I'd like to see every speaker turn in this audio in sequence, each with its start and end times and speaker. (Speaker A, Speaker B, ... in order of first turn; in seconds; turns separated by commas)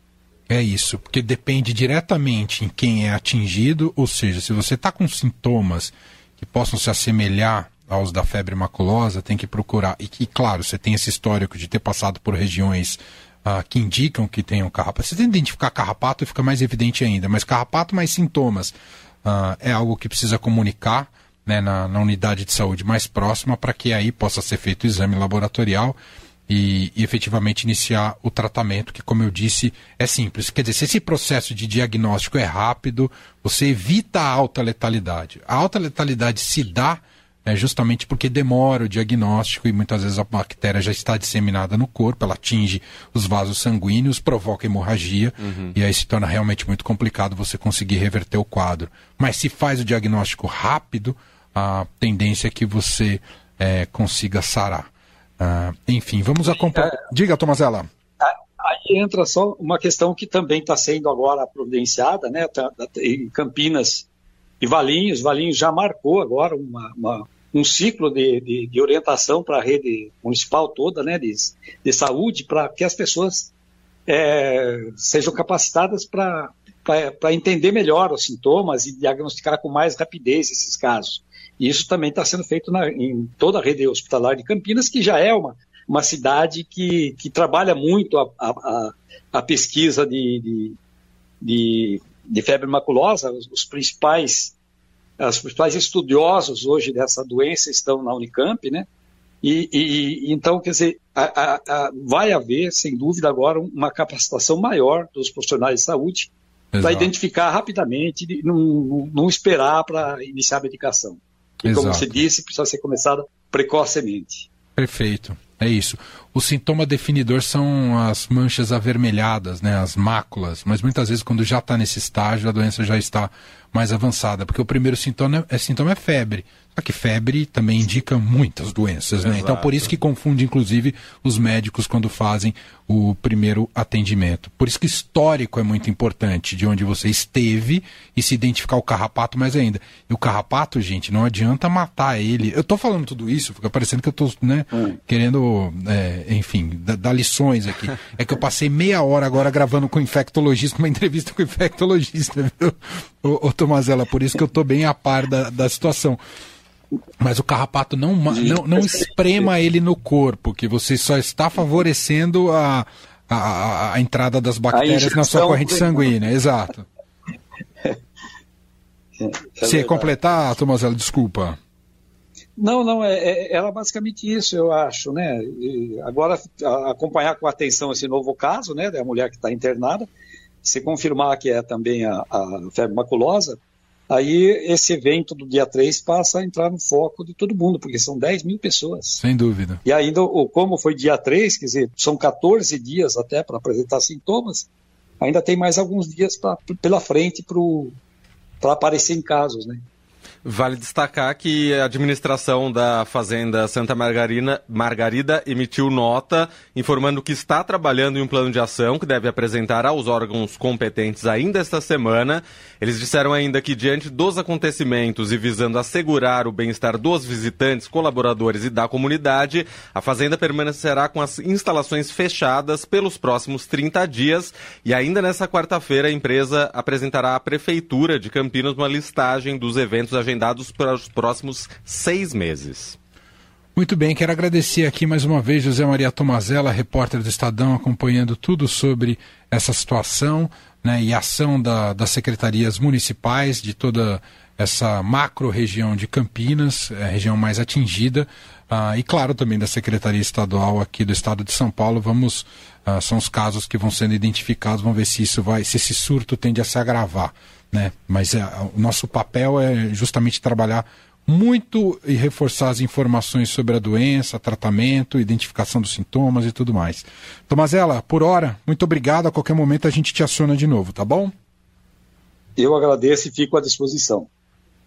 Speaker A: 0.5-57.9, Speaker B: 45.4-45.7, Speaker C: 58.2-64.0, Speaker C: 64.6-73.5, Speaker C: 74.1-90.8, Speaker C: 91.4-94.5, Speaker C: 95.2-98.9, Speaker C: 99.4-106.3, Speaker A: 106.7-107.1, Speaker C: 106.8-114.5, Speaker A: 111.6-112.2, Speaker A: 114.8-156.2, Speaker B: 129.2-129.7, Speaker A: 157.2-166.8, Speaker C: 158.3-158.9, Speaker C: 164.7-166.0, Speaker C: 169.2-170.1, Speaker A: 169.6-171.6, Speaker C: 172.6-180.1, Speaker C: 180.6-183.6, Speaker C: 184.1-189.2, Speaker A: 189.2-189.8, Speaker C: 189.8-194.7, Speaker C: 195.2-197.9, Speaker C: 198.6-199.8, Speaker B: 200.4-233.0, Speaker A: 233.8-271.3, Speaker C: 272.6-274.3